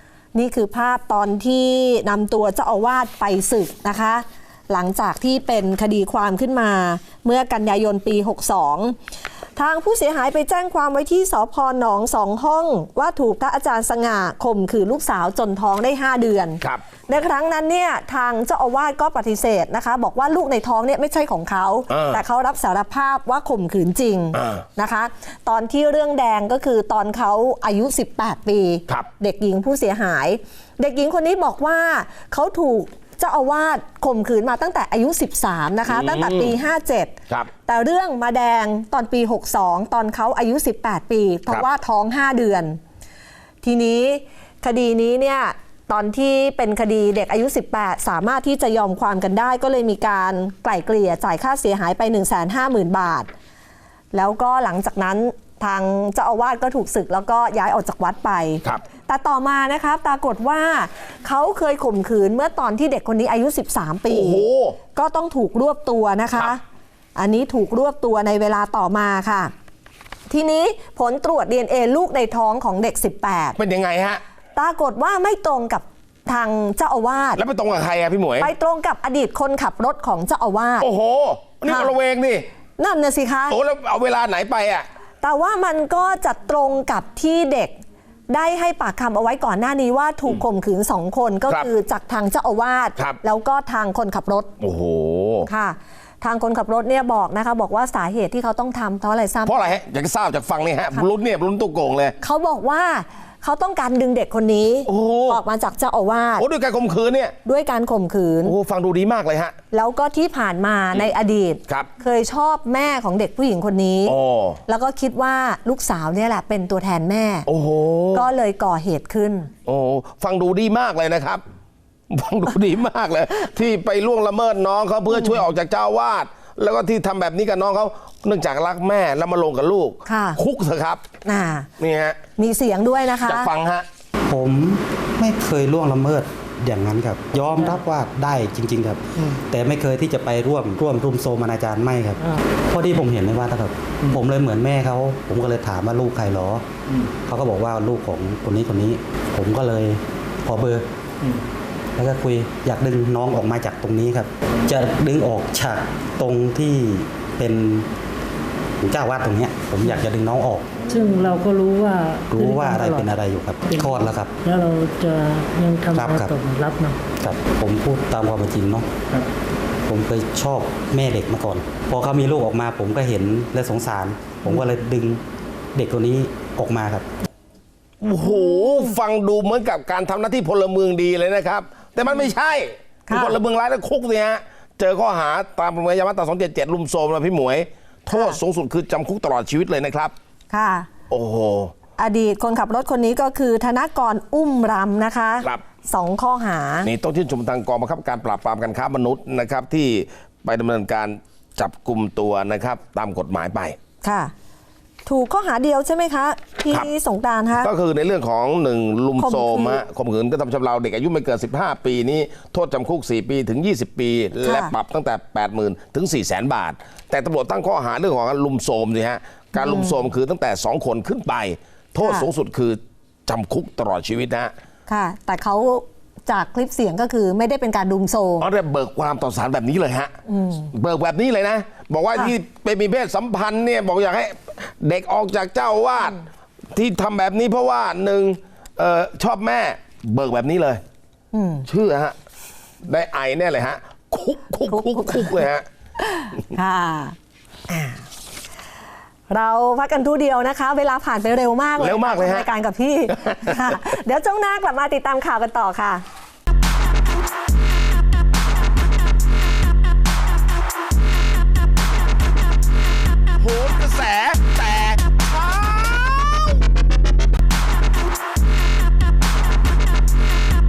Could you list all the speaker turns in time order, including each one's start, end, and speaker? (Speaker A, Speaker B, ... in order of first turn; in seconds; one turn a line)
Speaker A: 0.3-8.9
Speaker A: 9.6-42.8
Speaker B: 21.9-22.2
Speaker B: 24.3-24.6
Speaker B: 35.9-36.5
Speaker A: 43.6-53.3
Speaker A: 54.1-66.6
Speaker B: 64.1-64.8
Speaker A: 67.2-69.5
Speaker A: 70.3-73.6
Speaker B: 73.6-74.2
Speaker A: 74.5-77.4
Speaker B: 77.3-78.5
Speaker A: 78.4-80.9
Speaker B: 80.8-82.5
Speaker A: 81.7-81.9
Speaker A: 82.8-83.5
Speaker B: 83.5-84.9
Speaker A: 85.2-87.8
Speaker A: 88.3-94.5
Speaker B: 94.6-95.5
Speaker A: 95.5-99.7
Speaker B: 99.4-102.2
Speaker A: 102.2-106.4
Speaker B: 104.8-105.4
Speaker B: 106.4-107.3
Speaker A: 107.4-108.5
Speaker B: 108.4-109.6
Speaker A: 109.7-114.2
Speaker B: 114.0-114.6
Speaker A: 114.7-117.5
Speaker B: 117.5-118.3
Speaker A: 118.1-119.5
Speaker B: 119.7-121.4
Speaker B: 122.1-131.0
Speaker A: 125.1-125.4
Speaker A: 130.1-130.4
Speaker A: 131.2-131.7
Speaker B: 131.8-132.2
Speaker A: 132.4-133.5
Speaker B: 133.2-133.9
Speaker C: 134.3-146.6
Speaker C: 147.3-150.8
Speaker C: 151.9-157.9
Speaker C: 158.8-160.7
Speaker D: 160.9-167.0
Speaker C: 162.3-164.3
Speaker C: 165.9-166.3
Speaker C: 167.2-168.9
Speaker C: 169.8-175.2
Speaker C: 175.7-177.1
Speaker B: 178.0-190.1
Speaker A: 178.5-178.8
Speaker A: 183.1-183.4
Speaker A: 188.1-188.4
Speaker A: 190.5-190.9
Speaker B: 191.1-191.7
Speaker A: 192.0-196.9
Speaker B: 196.8-203.8
Speaker A: 204.0-204.3
Speaker A: 205.1-207.7
Speaker B: 207.6-224.5
Speaker A: 209.2-209.8
Speaker A: 214.4-214.7
Speaker A: 219.6-219.9
Speaker A: 224.9-228.4
Speaker B: 228.4-230.1
Speaker A: 230.3-230.7
Speaker B: 230.7-236.2
Speaker B: 236.7-240.8
Speaker A: 241.3-241.7
Speaker B: 241.7-242.1
Speaker B: 242.8-245.7
Speaker A: 244.7-245.4
Speaker A: 246.0-247.2
Speaker A: 247.7-248.0
Speaker A: 249.3-256.0
Speaker B: 251.8-252.5
Speaker B: 253.1-253.8
Speaker B: 263.4-266.6